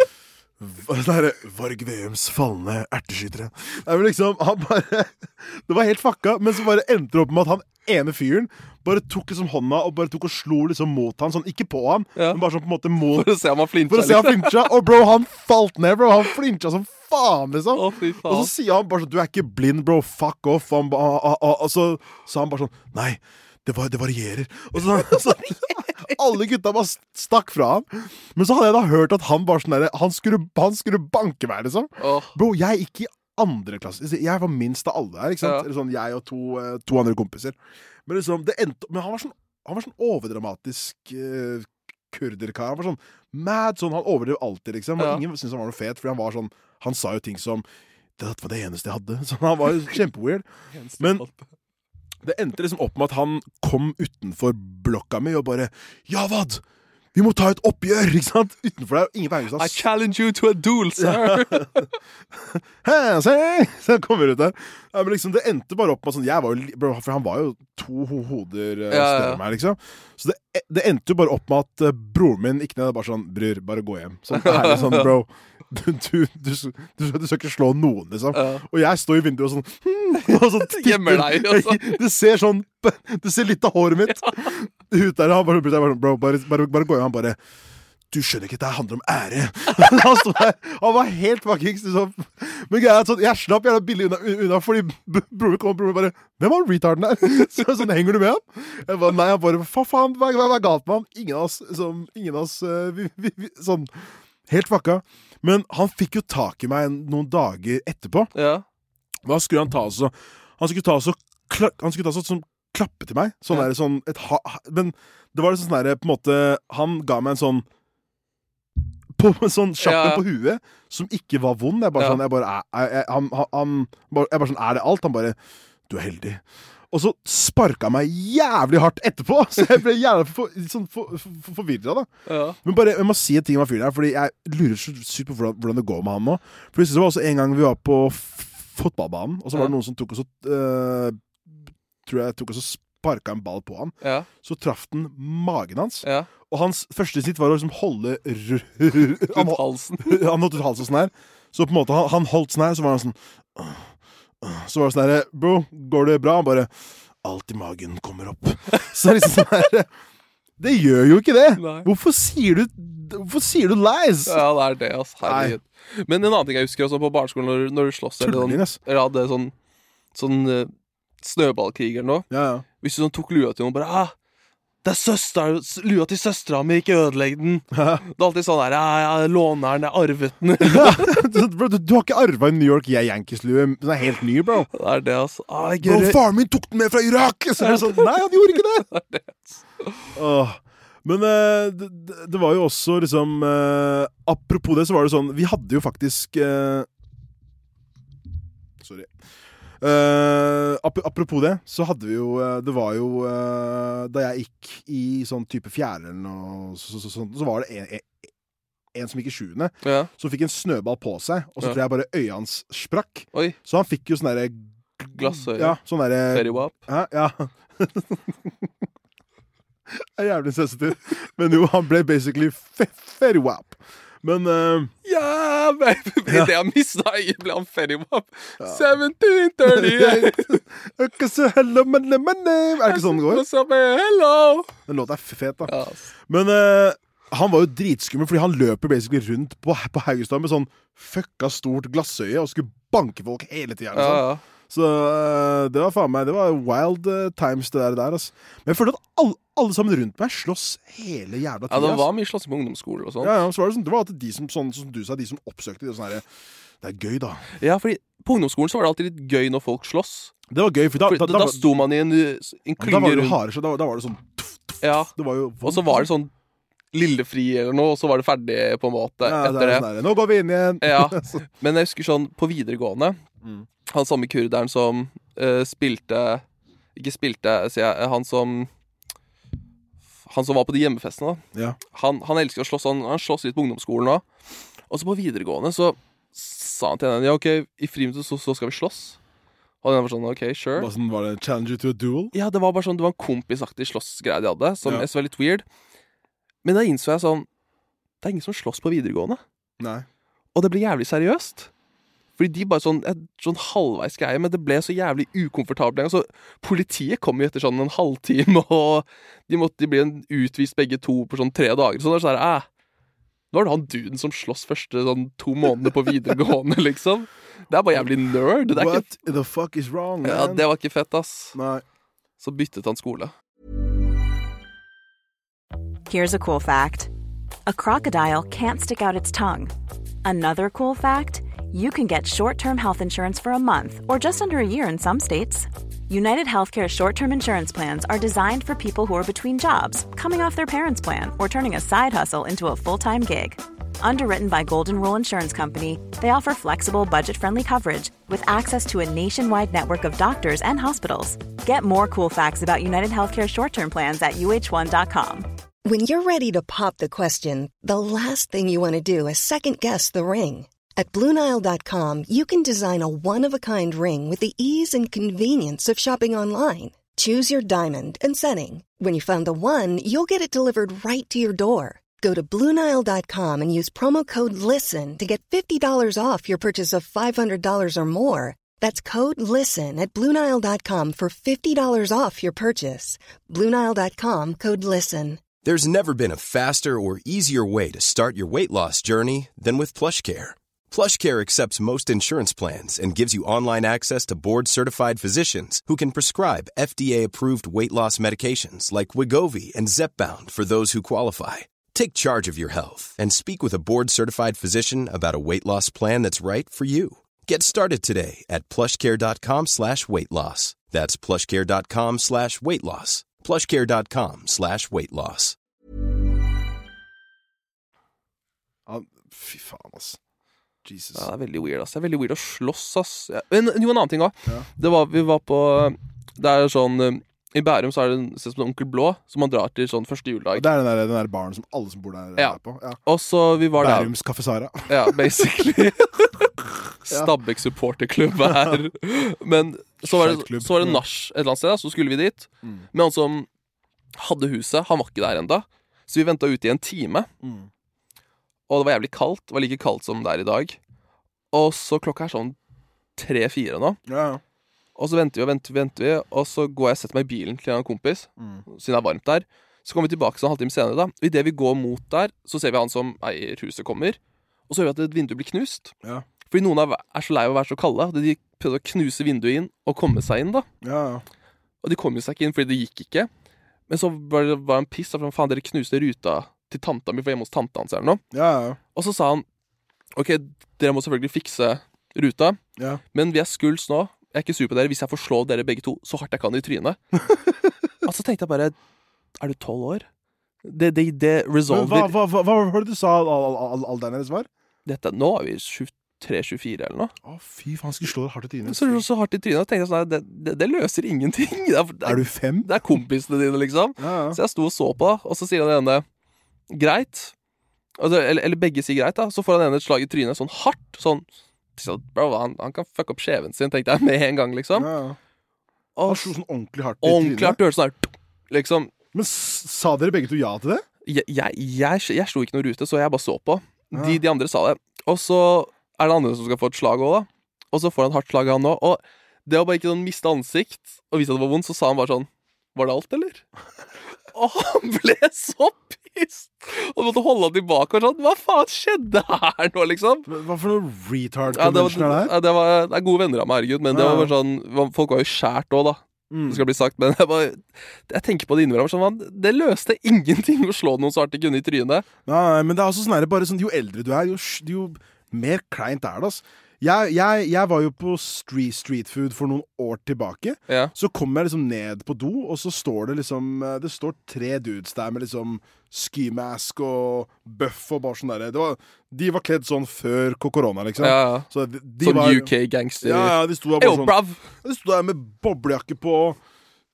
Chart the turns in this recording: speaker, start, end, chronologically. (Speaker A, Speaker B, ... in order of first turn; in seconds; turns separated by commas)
Speaker A: 0.6-13.3, Speaker B: 12.2-12.4, Speaker B: 13.1-14.7, Speaker A: 13.9-47.7, Speaker B: 17.7-18.5, Speaker B: 32.0-32.4, Speaker B: 35.4-35.7, Speaker B: 45.0-45.2, Speaker A: 48.2-50.5, Speaker B: 50.7-51.4, Speaker A: 51.0-51.2, Speaker A: 52.2-56.6, Speaker A: 57.1-59.9, Speaker B: 59.6-61.9, Speaker A: 61.0-87.4, Speaker B: 68.9-69.4, Speaker B: 74.3-75.2, Speaker B: 78.3-78.6, Speaker B: 80.2-82.0, Speaker B: 84.1-84.5, Speaker A: 88.1-108.3, Speaker B: 108.3-108.7, Speaker A: 109.2-117.7, Speaker A: 119.2-125.4, Speaker B: 119.8-120.2, Speaker B: 122.0-122.2, Speaker A: 125.9-132.1, Speaker B: 132.3-132.6, Speaker A: 132.6-141.5, Speaker A: 142.1-153.9, Speaker B: 144.0-144.3, Speaker B: 146.0-146.3, Speaker B: 149.3-150.2, Speaker A: 154.4-156.7, Speaker A: 157.2-159.9, Speaker A: 160.6-164.4, Speaker B: 161.6-161.9, Speaker B: 164.3-169.5, Speaker A: 165.2-165.6, Speaker A: 168.2-168.8, Speaker B: 170.1-170.7, Speaker B: 171.2-172.3, Speaker A: 172.3-172.7, Speaker B: 172.8-174.1, Speaker B: 174.8-181.2, Speaker A: 177.7-178.1, Speaker A: 180.6-184.7, Speaker B: 184.7-186.2, Speaker A: 185.8-188.9, Speaker B: 187.6-190.1, Speaker A: 190.2-196.9, Speaker A: 198.8-199.1, Speaker A: 199.8-208.2, Speaker A: 208.9-218.7, Speaker B: 209.8-210.1, Speaker B: 215.1-215.8, Speaker B: 216.3-216.8, Speaker A: 219.9-224.9, Speaker B: 225.1-230.6, Speaker A: 229.6-233.5, Speaker B: 232.8-234.7, Speaker A: 234.9-235.7, Speaker B: 235.7-236.1, Speaker A: 236.3-252.1, Speaker B: 243.9-244.4, Speaker B: 251.7-253.4, Speaker A: 253.2-256.3, Speaker A: 256.8-257.4, Speaker B: 257.6-260.4, Speaker A: 260.5-261.8, Speaker B: 261.1-263.4, Speaker A: 262.8-266.1, Speaker B: 264.8-265.1, Speaker B: 265.6-266.3, Speaker B: 266.9-269.9, Speaker A: 269.2-271.4, Speaker B: 270.8-273.2, Speaker A: 273.4-273.7, Speaker B: 273.9-276.4, Speaker B: 277.0-278.7, Speaker B: 280.3-284.2, Speaker A: 281.5-281.8, Speaker B: 284.9-289.2, Speaker B: 289.8-290.9, Speaker A: 290.8-292.3, Speaker B: 292.3-295.6, Speaker B: 296.6-297.5, Speaker B: 298.2-299.4, Speaker A: 299.8-300.1, Speaker B: 300.6-301.7, Speaker B: 302.4-312.7, Speaker B: 313.5-319.1, Speaker A: 318.7-320.7, Speaker B: 320.2-321.6, Speaker A: 321.5-321.8, Speaker B: 322.4-323.3, Speaker C: 326.1-327.1, Speaker C: 327.7-329.7, Speaker C: 330.2-355.5, Speaker D: 355.9-385.4, Speaker E: 385.6-415.6, Speaker A: 418.9-420.2, Speaker A: 420.9-421.3, Speaker B: 421.1-430.7, Speaker A: 430.5-433.0, Speaker B: 432.4-434.1, Speaker A: 433.8-435.2, Speaker B: 434.9-436.5, Speaker B: 437.1-443.5, Speaker A: 438.4-438.8, Speaker A: 440.0-441.0, Speaker B: 444.1-447.3, Speaker A: 447.4-447.7, Speaker B: 448.7-450.8, Speaker B: 451.5-452.6, Speaker B: 453.2-454.0, Speaker A: 454.1-454.4, Speaker B: 455.0-465.9, Speaker A: 458.4-458.6, Speaker B: 466.5-470.7, Speaker A: 470.8-471.2, Speaker B: 471.8-473.3, Speaker B: 473.9-478.2, Speaker A: 478.3-478.8, Speaker B: 478.9-479.5, Speaker B: 480.1-482.6, Speaker A: 482.8-483.0, Speaker B: 483.1-487.0, Speaker B: 488.0-488.8, Speaker B: 489.4-490.1, Speaker B: 490.6-492.1, Speaker A: 491.7-494.5, Speaker B: 494.9-497.1, Speaker A: 497.2-499.1, Speaker B: 498.6-506.1, Speaker A: 502.1-502.7, Speaker A: 504.0-504.4, Speaker B: 506.7-507.3, Speaker B: 508.0-511.2, Speaker B: 511.8-514.9, Speaker A: 514.7-515.2, Speaker B: 516.0-516.3, Speaker A: 516.1-517.6, Speaker B: 517.0-518.9, Speaker A: 519.1-520.9, Speaker B: 521.1-533.4, Speaker A: 523.9-524.2, Speaker B: 534.3-540.3, Speaker A: 540.3-542.3, Speaker B: 541.5-552.1, Speaker A: 543.9-544.3, Speaker A: 546.3-546.6, Speaker A: 552.3-576.4, Speaker B: 571.0-571.5, Speaker B: 572.0-574.5